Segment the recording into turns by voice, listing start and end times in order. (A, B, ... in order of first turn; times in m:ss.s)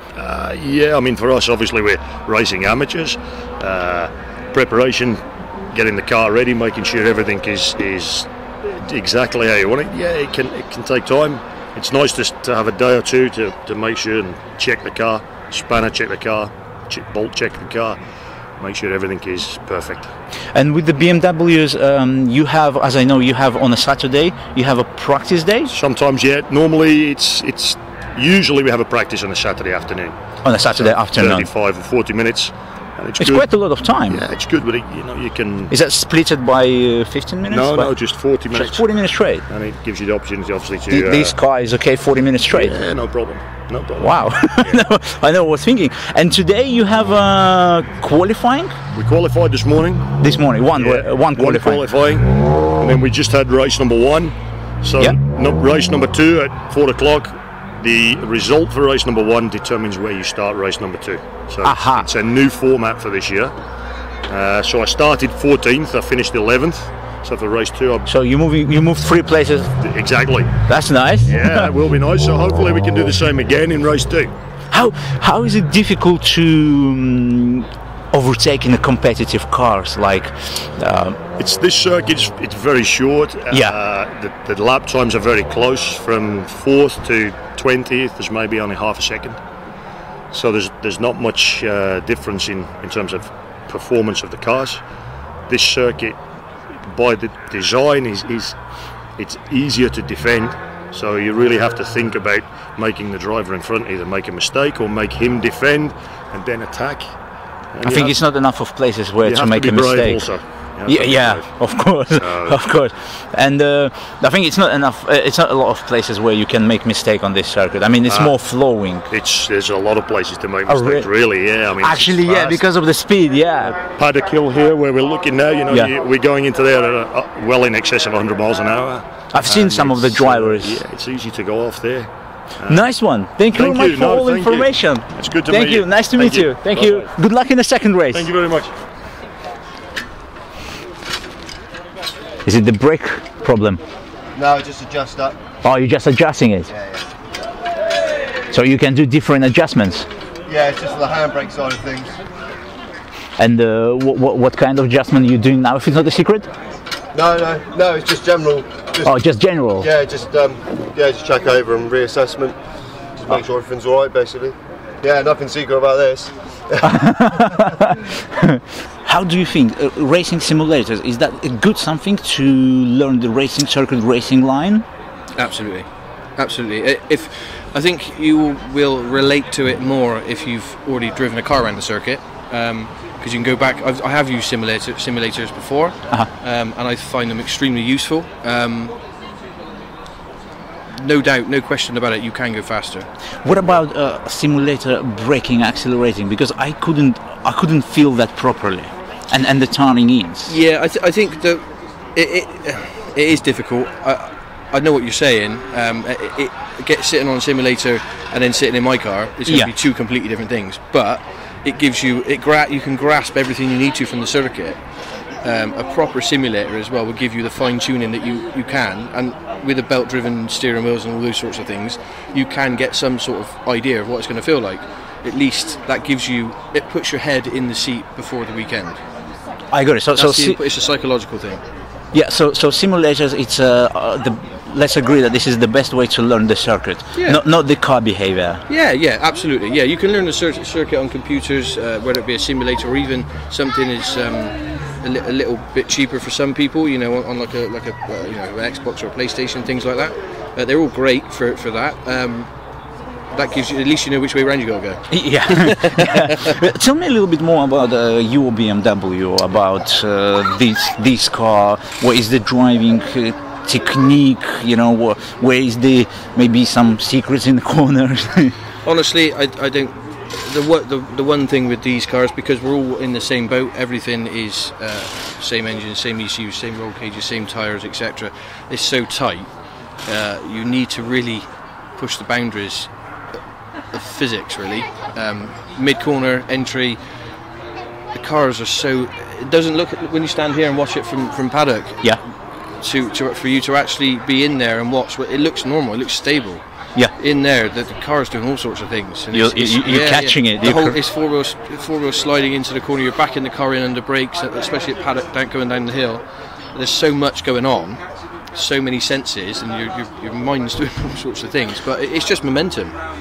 0:00.2-0:18.0 A
0:18.6-0:20.1 A
0:20.5-0:25.7 B
0:25.7-0:33.5 A
0:30.4-0:31.5 B
0:33.2-0:34.2 B
0:34.1-0:35.7 A
0:35.7-0:37.9 B
0:37.5-0:38.8 A
0:38.5-0:39.4 B
0:39.5-0:41.4 A
0:40.9-0:42.8 B
0:42.5-0:44.8 A
0:44.0-0:48.8 B
0:48.9-0:50.1 A
0:50.2-0:51.9 B
0:50.8-1:03.5 A
1:01.6-1:02.1 B
1:04.3-1:08.1 A
1:08.1-1:09.7 B
1:09.8-1:10.6 A
1:10.7-1:11.7 B
1:11.3-1:14.3 A
1:14.7-1:21.2 B
1:21.4-1:29.4 A
1:23.5-1:23.8 B
1:30.3-1:34.8 A
1:35.5-1:36.2 A
1:36.9-1:38.6 A
1:39.2-1:47.1 A
1:47.7-1:48.2 A
1:47.8-1:50.3 B
1:49.2-1:52.6 A
1:50.9-1:59.1 B
1:58.1-1:58.3 A
1:59.1-2:02.6 A
2:00.7-2:01.1 B
2:01.8-2:03.8 B
2:03.8-2:12.9 A
2:09.3-2:10.8 B
2:12.7-2:18.3 B
2:13.5-2:17.1 A
2:18.1-2:18.7 A
2:22.5-2:23.8 B
2:24.4-2:25.4 C
2:25.6-2:26.7 B
2:26.7-2:27.0 C
2:28.5-2:30.1 B
2:30.5-2:32.2 C
2:33.4-2:36.5 B
2:37.1-2:39.2 C
2:39.0-2:39.9 B
2:39.8-2:42.6 C
2:43.2-2:47.7 C
2:46.8-2:54.9 B
2:55.4-3:09.0 D
3:10.9-3:13.1 D
3:13.4-3:20.6 B
3:20.5-3:34.8 D
3:29.5-3:29.7 B
3:35.4-3:49.0 D
3:49.7-3:50.6 B
3:50.2-3:51.6 D
3:52.1-3:58.6 B
3:57.2-3:57.4 D
3:58.7-4:12.5 D
4:13.3-4:16.5 D
4:15.1-4:28.6 B
4:28.8-4:39.5 D
4:40.0-4:43.0 D
4:43.9-4:47.0 D
4:48.1-5:08.0 D
4:59.3-5:01.0 B
5:08.5-5:13.0 D